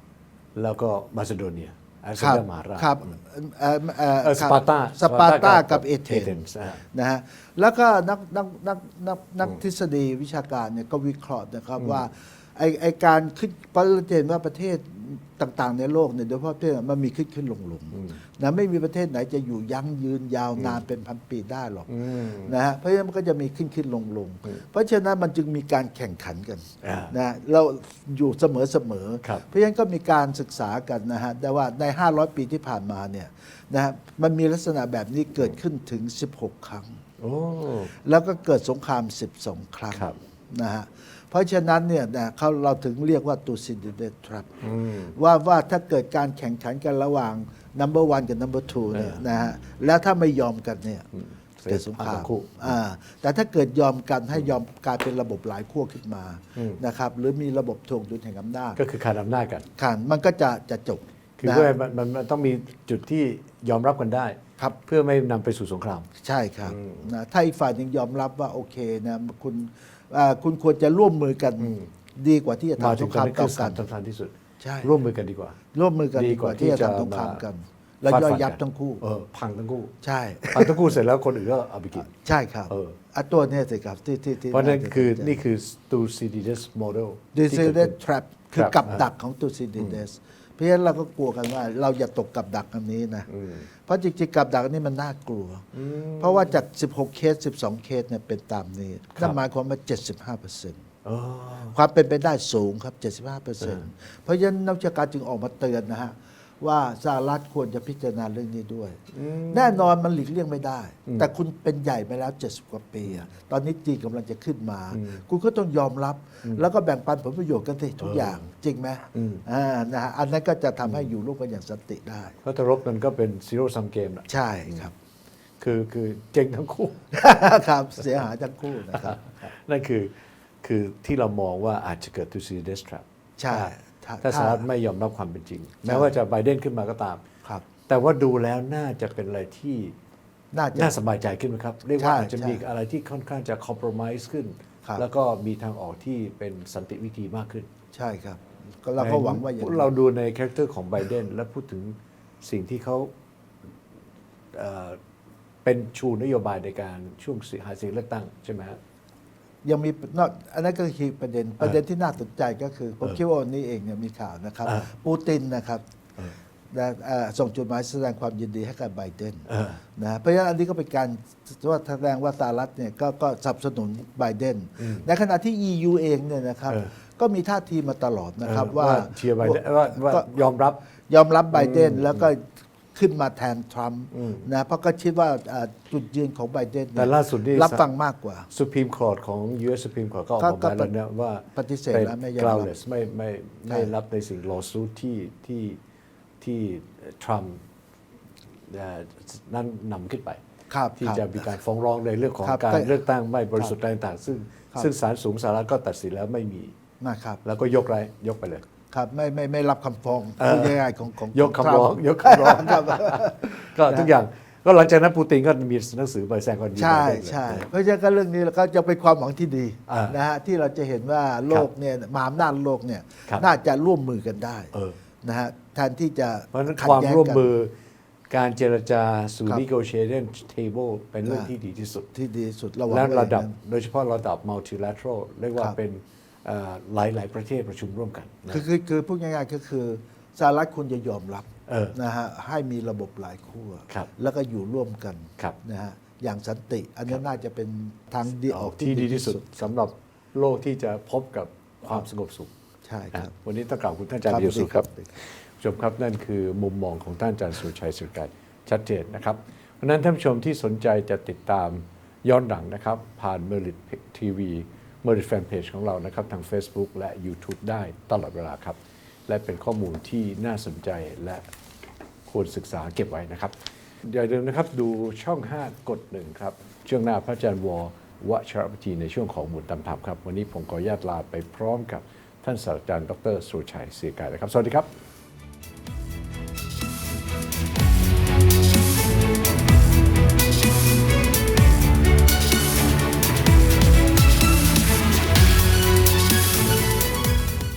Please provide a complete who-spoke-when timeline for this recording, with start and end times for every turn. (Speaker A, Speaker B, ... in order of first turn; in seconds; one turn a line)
Speaker A: 0.6-3.1
Speaker B: 2.2-6.4
Speaker A: 4.2-6.8
Speaker B: 6.9-37.0
Speaker A: 11.8-12.0
Speaker A: 17.9-18.2
Speaker A: 21.9-22.6
Speaker A: 26.8-27.1
Speaker A: 37.2-37.9
Speaker B: 37.9-44.6
Speaker A: 39.9-40.2
Speaker A: 44.6-45.1
Speaker B: 45.1-51.1
Speaker A: 48.9-49.3
Speaker A: 51.1-52.8
Speaker B: 51.7-58.8
Speaker A: 56.6-56.8
Speaker A: 58.8-59.7
Speaker B: 59.8-61.8
Speaker A: 61.4-66.1
Speaker B: 66.2-73.9
Speaker A: 66.7-67.1
Speaker A: 71.6-71.9
Speaker A: 72.8-75.6
Speaker B: 74.6-75.0
Speaker B: 75.7-79.0
Speaker A: 76.2-77.4
Speaker A: 78.0-79.9
Speaker B: 80.0-81.0
Speaker A: 80.5-82.2
Speaker B: 82.0-85.4
Speaker A: 82.7-83.0
Speaker A: 84.5-88.0
Speaker B: 87.3-93.3
Speaker A: 88.5-89.0
Speaker A: 89.8-90.0
Speaker A: 93.3-93.7
Speaker B: 93.8-95.7
Speaker A: 95.7-96.6
Speaker B: 96.2-100.8
Speaker A: 101.0-101.8
Speaker B: 101.7-122.4
Speaker A: 109.1-109.9
Speaker A: 114.9-115.2
Speaker A: 118.0-118.5
Speaker A: 119.1-119.4
Speaker A: 122.4-124.9
Speaker B: 124.3-124.9
Speaker A: 125.6-127.0
Speaker B: 127.1-129.2
Speaker A: 128.9-137.2
Speaker B: 133.4-134.7
Speaker B: 135.8-136.2
Speaker A: 137.9-140.0
Speaker B: 140.5-141.0
Speaker A: 140.7-147.7
Speaker B: 142.0-142.7
Speaker B: 147.9-149.9
Speaker A: 149.0-153.1
Speaker A: 154.5-155.0
Speaker A: 155.6-158.8
Speaker B: 159.6-165.8
Speaker B: 166.7-180.5
Speaker A: 169.5-169.8
Speaker A: 174.8-175.1
Speaker A: 176.7-176.9
Speaker A: 178.4-180.8
Speaker B: 181.1-188.5
Speaker A: 181.5-182.3
Speaker A: 184.1-184.5
Speaker A: 186.9-187.9
Speaker A: 188.5-195.8
Speaker B: 190.4-190.9
Speaker B: 191.5-192.8
Speaker B: 193.7-193.9
Speaker A: 196.4-197.6
Speaker A: 198.7-200.4
Speaker B: 200.7-201.6
Speaker A: 201.0-206.7
Speaker B: 202.4-203.0
Speaker B: 207.0-207.4
Speaker A: 207.4-208.7
Speaker B: 208.9-214.1
Speaker A: 210.4-217.7
Speaker B: 216.8-227.5
Speaker A: 219.9-220.2
Speaker A: 224.7-225.0
Speaker A: 226.5-227.8
Speaker A: 228.3-232.1
Speaker B: 231.2-231.5
Speaker B: 232.1-233.6
Speaker A: 232.9-238.6
Speaker B: 238.5-249.7
Speaker A: 241.7-242.0
Speaker A: 248.5-252.5
Speaker B: 252.8-253.3
Speaker A: 253.1-271.5
Speaker B: 254.3-255.1
Speaker A: 272.3-284.9